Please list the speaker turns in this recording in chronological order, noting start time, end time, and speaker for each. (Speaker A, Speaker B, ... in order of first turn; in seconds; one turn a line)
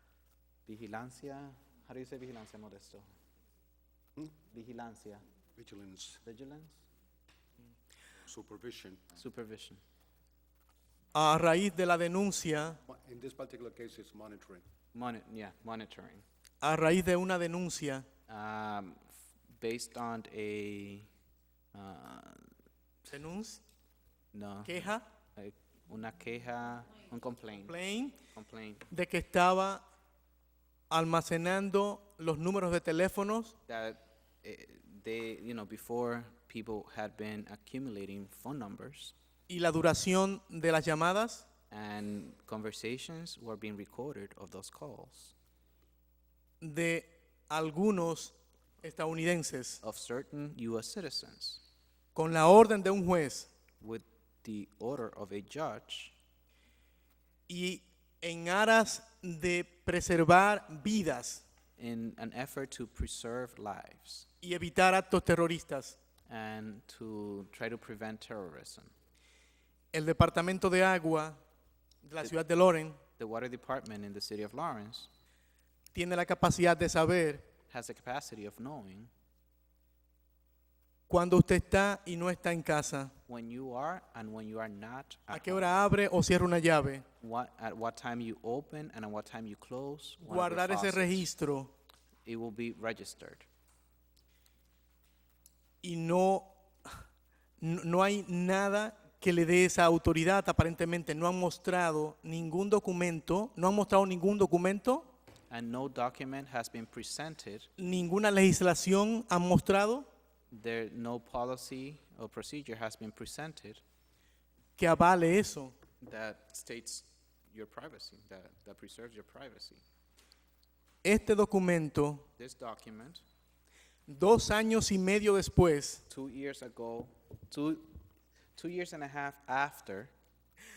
Speaker A: 0.7-3.1
Speaker A: 4.5-5.2
Speaker B: 5.6-6.2
Speaker A: 6.2-6.8
Speaker B: 8.2-9.0
Speaker A: 9.1-9.8
Speaker C: 11.1-12.8
Speaker B: 12.9-14.6
Speaker A: 14.9-16.2
Speaker C: 16.6-18.0
Speaker A: 18.3-21.1
Speaker A: 21.7-22.5
Speaker C: 23.1-23.6
Speaker A: 24.3-27.7
Speaker C: 24.6-25.0
Speaker C: 27.7-28.2
Speaker A: 28.3-28.9
Speaker C: 28.9-29.8
Speaker C: 30.9-33.5
Speaker A: 33.7-39.1
Speaker C: 39.5-41.5
Speaker A: 41.7-45.3
Speaker C: 46.6-49.8
Speaker A: 49.8-51.6
Speaker C: 52.1-53.5
Speaker A: 53.8-56.1
Speaker C: 57.5-61.4
Speaker A: 61.8-64.3
Speaker C: 64.4-66.0
Speaker A: 66.3-68.9
Speaker C: 69.9-71.4
Speaker C: 72.0-73.0
Speaker A: 73.2-75.1
Speaker C: 75.9-77.5
Speaker A: 77.7-79.1
Speaker C: 81.1-83.1
Speaker A: 83.3-85.7
Speaker C: 85.3-87.0
Speaker A: 87.2-91.3
Speaker C: 90.2-91.7
Speaker A: 92.2-93.5
Speaker C: 95.8-96.5
Speaker C: 97.6-105.1
Speaker A: 105.5-107.7
Speaker C: 107.8-110.1
Speaker A: 110.5-113.8
Speaker C: 114.8-115.7
Speaker A: 116.0-119.8
Speaker C: 121.0-122.2
Speaker A: 122.4-123.2
Speaker C: 124.1-126.0
Speaker A: 126.1-127.9
Speaker A: 128.6-130.1